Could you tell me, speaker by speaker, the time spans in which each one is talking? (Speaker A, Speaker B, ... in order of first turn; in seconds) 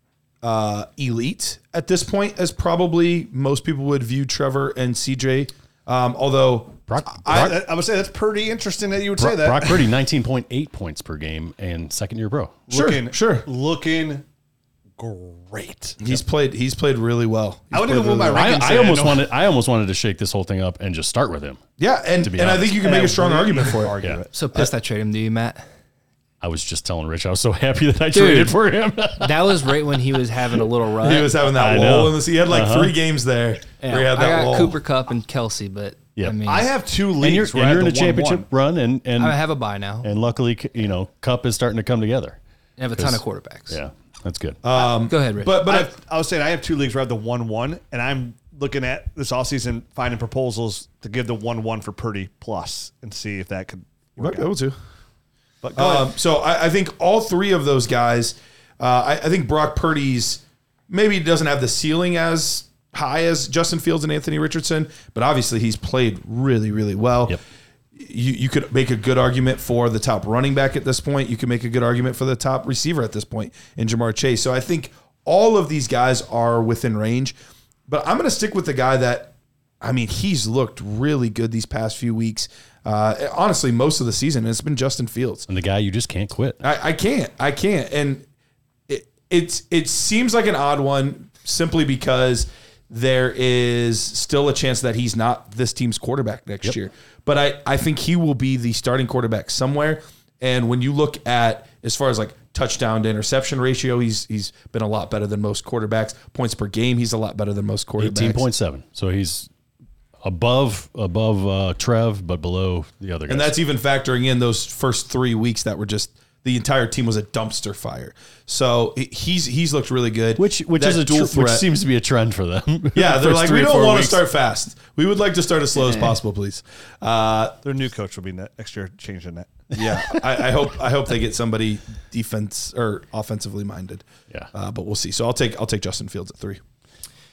Speaker A: 0.4-7.5, 12.7-13.5, 16.0-18.5, 21.8-24.7, 31.0-34.8, 44.6-45.9, 54.2-54.8, 55.8-67.4, 68.0-77.4, 77.9-85.5, 86.6-88.2, 88.9-108.5, 113.3-121.7, 123.0-127.6, 129.7-136.6
Speaker B: 6.9-7.6, 9.2-12.7, 18.3-21.6, 22.2-22.9, 26.4-29.8, 31.5-33.0, 37.2-39.4, 40.0-42.4, 43.0-44.6, 85.5-86.6, 108.0-109.5, 110.2-113.6, 120.4-124.2
Speaker C: 7.3-9.9, 12.7-14.2, 15.0-16.0, 17.7-19.3, 22.8-24.3, 36.5-38.5, 45.6-54.5, 55.6-56.1, 127.6-129.5
Speaker D: 24.3-25.6, 28.1-28.6, 29.2-31.4, 33.8-36.7, 39.2-40.1, 42.8-43.8, 44.8-45.6